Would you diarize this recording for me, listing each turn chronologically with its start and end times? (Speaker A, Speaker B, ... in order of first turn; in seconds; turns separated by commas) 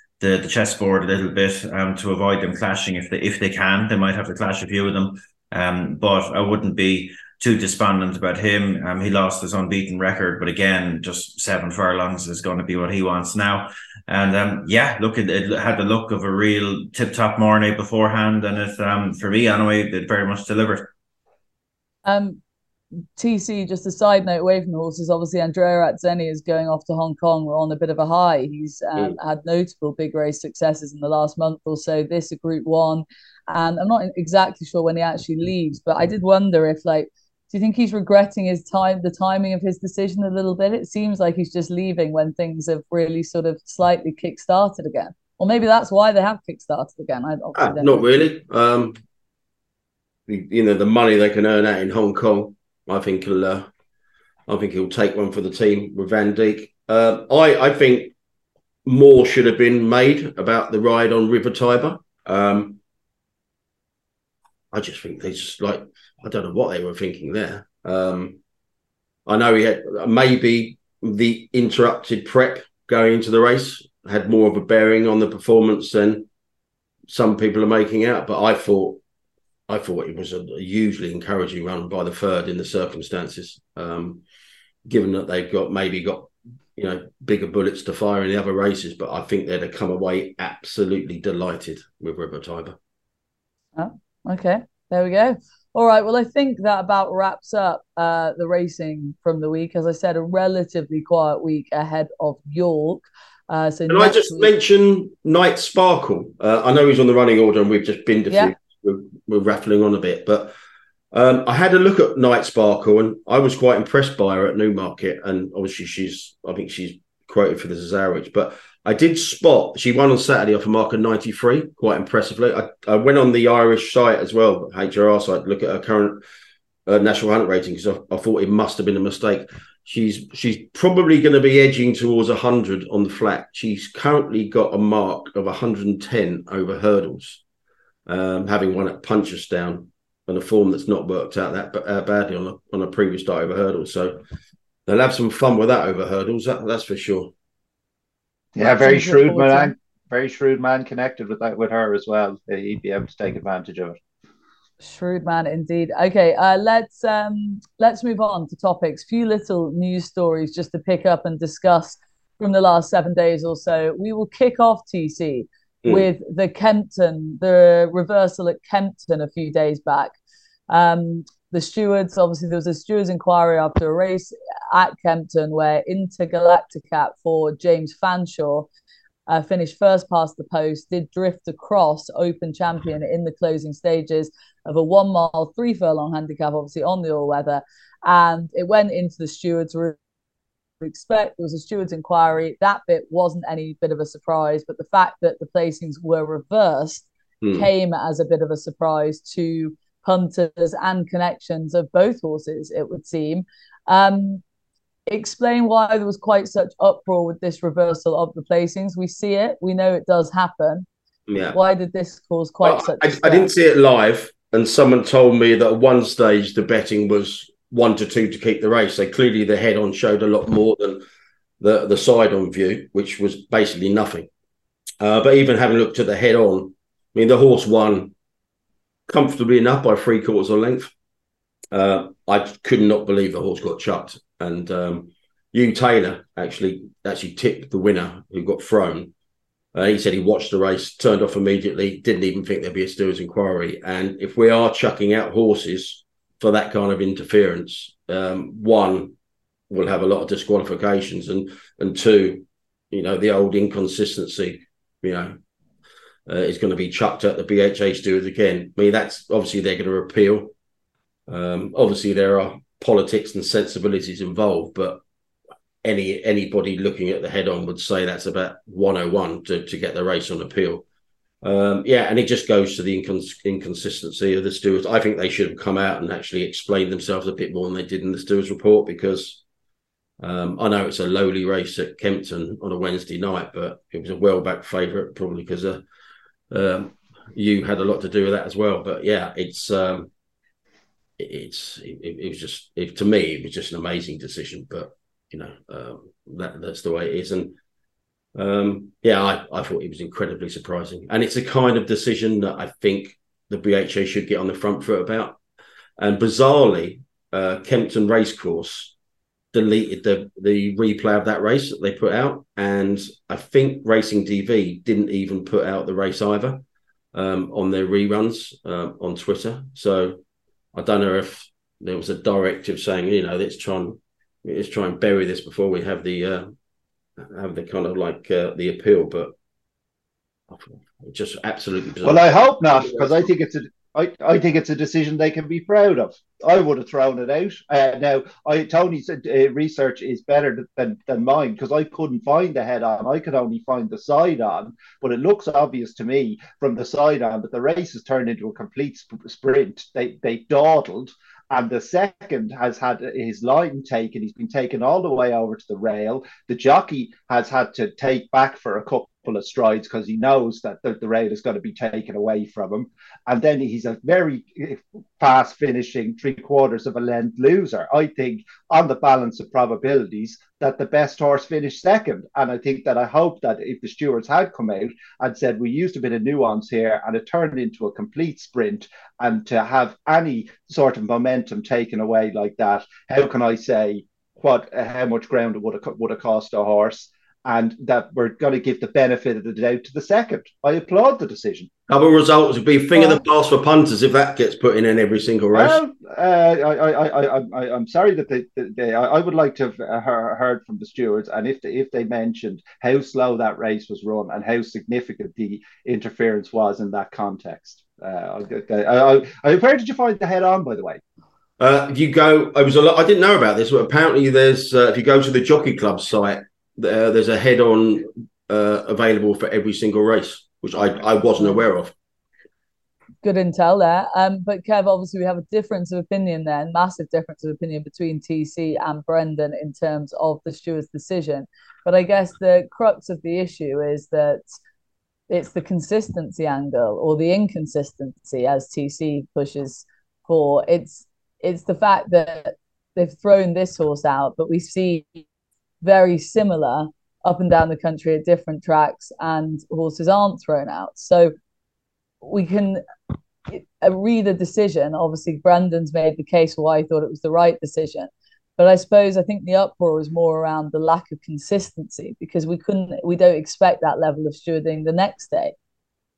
Speaker A: 0.2-20.9, Speaker B: 22.0-22.4, Speaker B: 23.1-48.2, Speaker C: 47.5-49.0, Speaker C: 50.3-53.7, Speaker C: 54.5-58.1, Speaker C: 58.8-62.8, Speaker C: 64.7-68.4, Speaker C: 69.2-76.3, Speaker C: 77.1-79.0, Speaker C: 79.7-84.2, Speaker C: 84.8-92.8, Speaker B: 93.8-104.5, Speaker C: 103.9-110.5, Speaker C: 111.1-126.2, Speaker C: 126.8-137.4, Speaker C: 138.1-144.2, Speaker C: 144.8-147.3, Speaker D: 148.5-154.0, Speaker B: 148.6-149.7, Speaker B: 154.8-170.1, Speaker B: 170.7-178.7, Speaker B: 179.3-190.0, Speaker B: 190.8-204.4, Speaker C: 197.4-197.7, Speaker B: 205.1-210.9, Speaker C: 211.3-211.6, Speaker B: 211.5-213.5, Speaker C: 212.6-221.0, Speaker C: 221.6-224.3, Speaker C: 225.0-228.1, Speaker C: 229.1-230.9, Speaker C: 231.7-239.1, Speaker C: 239.7-249.1, Speaker C: 249.7-255.4, Speaker C: 256.3-260.5, Speaker C: 261.3-265.0, Speaker C: 265.8-270.8, Speaker C: 271.4-279.4, Speaker C: 280.2-285.8, Speaker C: 286.5-290.1, Speaker C: 291.2-297.5, Speaker C: 298.3-305.4, Speaker C: 306.0-308.9, Speaker C: 309.5-316.6, Speaker C: 317.1-320.2, Speaker C: 320.7-326.5, Speaker C: 327.2-329.3, Speaker C: 330.5-333.3, Speaker D: 332.0-391.7, Speaker C: 391.9-395.8, Speaker D: 392.9-393.2, Speaker D: 395.5-411.0, Speaker C: 411.6-421.9, Speaker B: 423.2-434.4, Speaker B: 435.3-445.2, Speaker B: 445.8-451.3, Speaker B: 452.2-452.8, Speaker B: 453.5-465.5